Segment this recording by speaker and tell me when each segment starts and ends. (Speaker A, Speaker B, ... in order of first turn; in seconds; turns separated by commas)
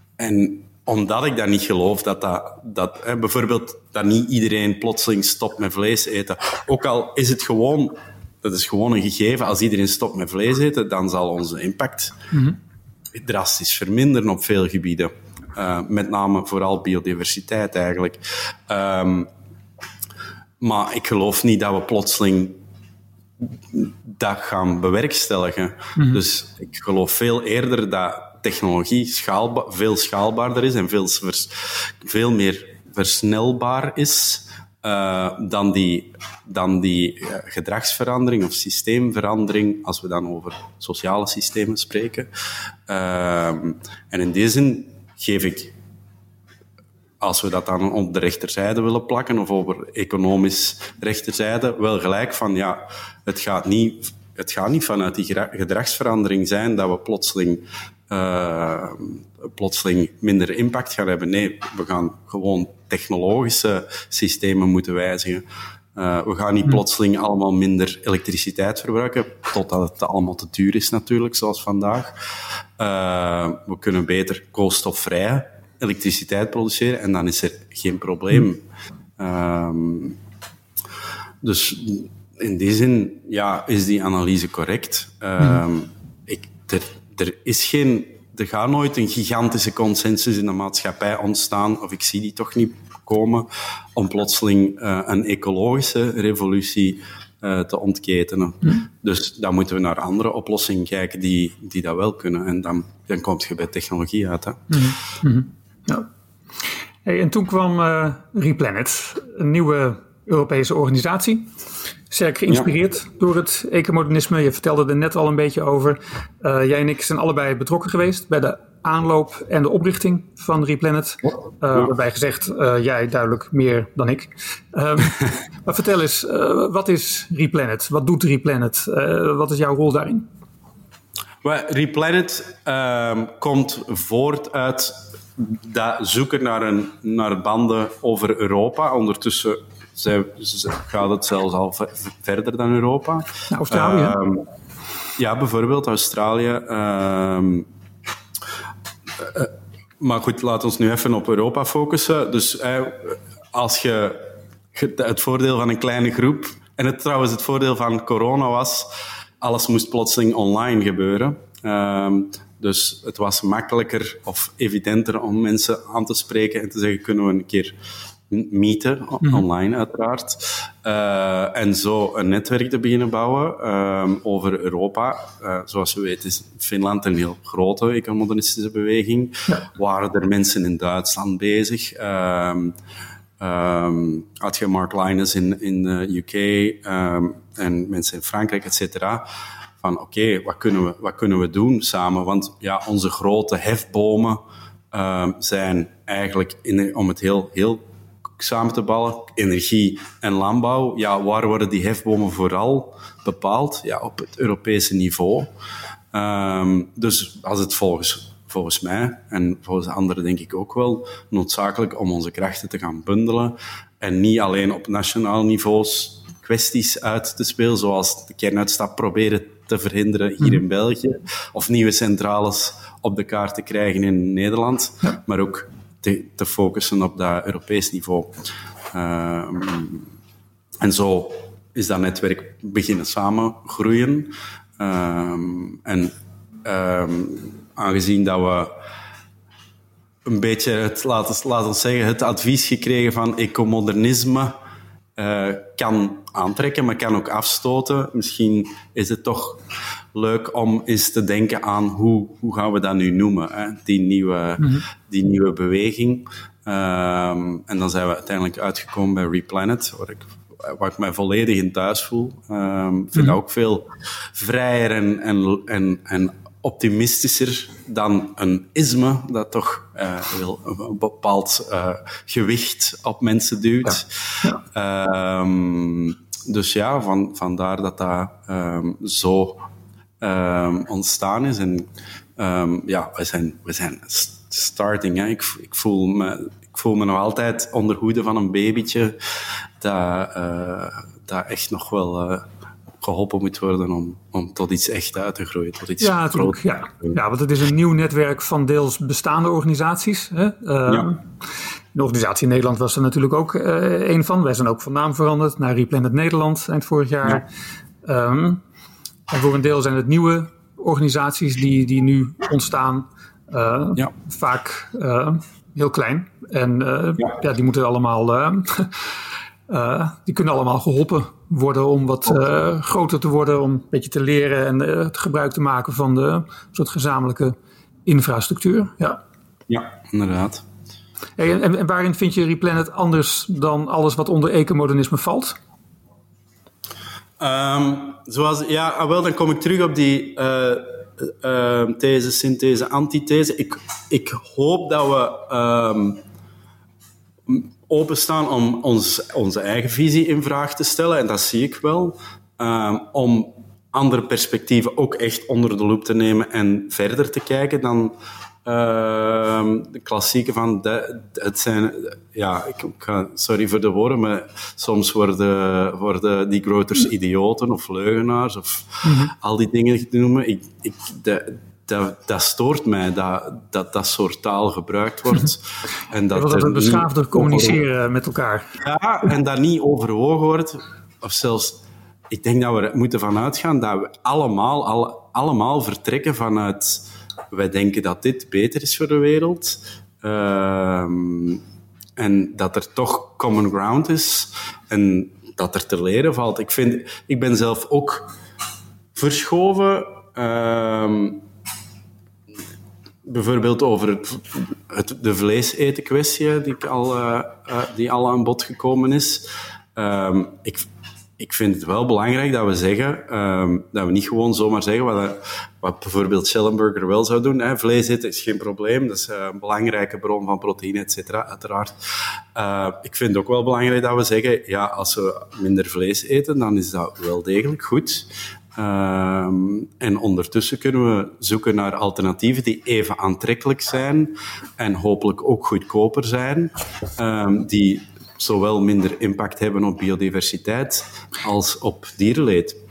Speaker A: 0.2-12.2, Speaker B: 12.3-12.6, Speaker A: 13.1-19.3, Speaker A: 20.6-22.6, Speaker A: 23.4-42.3, Speaker B: 26.0-26.2, Speaker A: 42.9-45.7, Speaker A: 47.2-72.2, Speaker A: 72.8-78.6, Speaker A: 79.2-80.2, Speaker A: 81.4-104.8, Speaker B: 104.7-106.1, Speaker B: 107.0-111.5, Speaker B: 112.1-130.3, Speaker A: 131.4-144.4, Speaker B: 143.5-144.2, Speaker A: 145.2-147.7, Speaker A: 149.2-154.2, Speaker A: 154.7-158.9, Speaker A: 159.4-167.8, Speaker A: 168.3-182.8, Speaker A: 183.4-189.2, Speaker A: 189.8-197.8, Speaker A: 198.4-205.5, Speaker A: 206.1-228.3, Speaker A: 228.9-230.1, Speaker A: 230.8-238.7, Speaker A: 240.2-244.5, Speaker A: 245.2-274.1, Speaker B: 254.6-254.8, Speaker A: 274.6-279.6, Speaker A: 280.2-289.2, Speaker A: 289.8-292.4, Speaker A: 293.0-297.1, Speaker B: 296.0-301.2, Speaker B: 301.9-307.5, Speaker B: 308.0-308.6, Speaker B: 309.3-319.0, Speaker B: 319.7-329.2, Speaker A: 329.7-330.6, Speaker B: 331.4-335.6, Speaker A: 337.4-346.2, Speaker A: 347.5-358.1, Speaker A: 358.6-377.8, Speaker B: 369.0-369.3, Speaker B: 376.3-378.7, Speaker A: 378.8-381.8, Speaker A: 382.3-391.6, Speaker A: 392.2-398.3, Speaker A: 399.1-401.4, Speaker A: 403.2-410.9, Speaker A: 411.4-421.9, Speaker A: 422.6-442.8